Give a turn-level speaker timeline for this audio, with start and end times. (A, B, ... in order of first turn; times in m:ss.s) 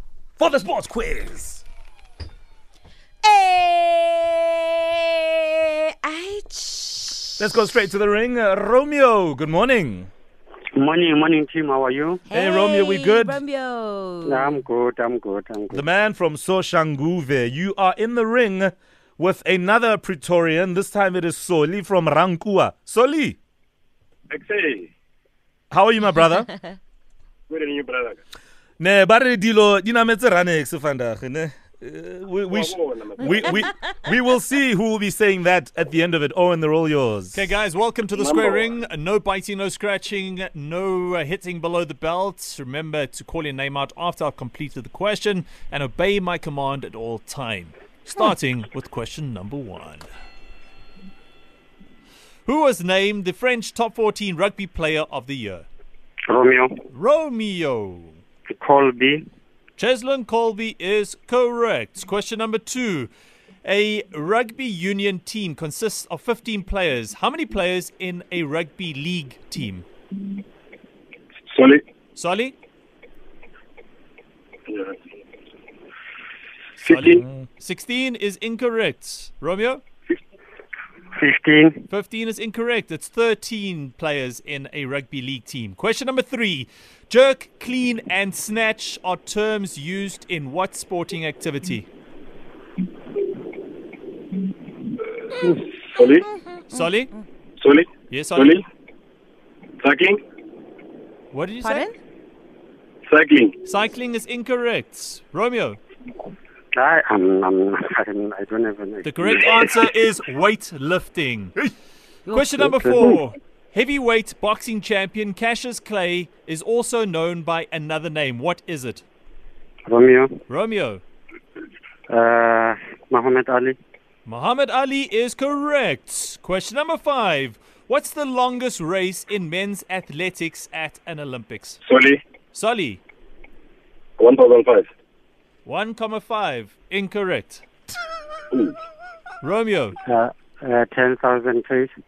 0:00.4-0:01.6 A
0:03.2-0:07.5 B
0:07.4-0:10.1 A
0:10.8-0:12.2 C
0:12.3-0:14.6 B
0:12.3-0:13.4 A
0:14.3-0:15.8 C
0:15.7-0:23.4 A
0:24.3-0:24.9 D
0:25.7-0:26.5 A
0:27.5-0:28.2 D
0:28.8-0:37.4 A
0:32.5-0:33.6 D
0:37.3-0:50.1 E
0:38.1-0:38.8 D
0:52.4-0:55.7 E
0:56.3-0:56.8 C
0:56.9-0:58.2 E
0:58.6-0:59.2 C
0:59.8-1:03.1 E
1:03.6-1:09.8 E
1:11.5-1:11.8 D
1:12.1-1:12.5 E
1:14.7-1:15.0 D
1:16.8-1:19.8 E
1:16.8-1:17.2 D
1:21.2-1:21.9 C
1:21.9-1:31.9 E
1:35.4-1:36.3 D
1:36.2-1:36.8 B
1:36.7-1:37.1 E
1:37.6-1:38.6 D
1:38.1-1:38.6 E
1:39.8-1:40.2 D
1:41.3-1:41.9 E
1:41.6-1:41.9 B
1:43.1-1:43.6 D
1:43.6-1:45.8 E
1:46.8-1:49.7 C
1:49.0-1:51.6 E
1:52.3-1:59.0 E
1:52.6-1:53.2 C
1:59.9-2:00.4 C
2:00.5-2:01.0 E
2:02.1-2:03.8 C
2:04.2-2:11.8 E
2:11.8-2:12.2 D
2:12.5-2:13.0 E
2:14.2-2:14.9 D
2:15.6-2:17.6 E
2:19.4-2:20.0 E
2:20.1-2:21.9 C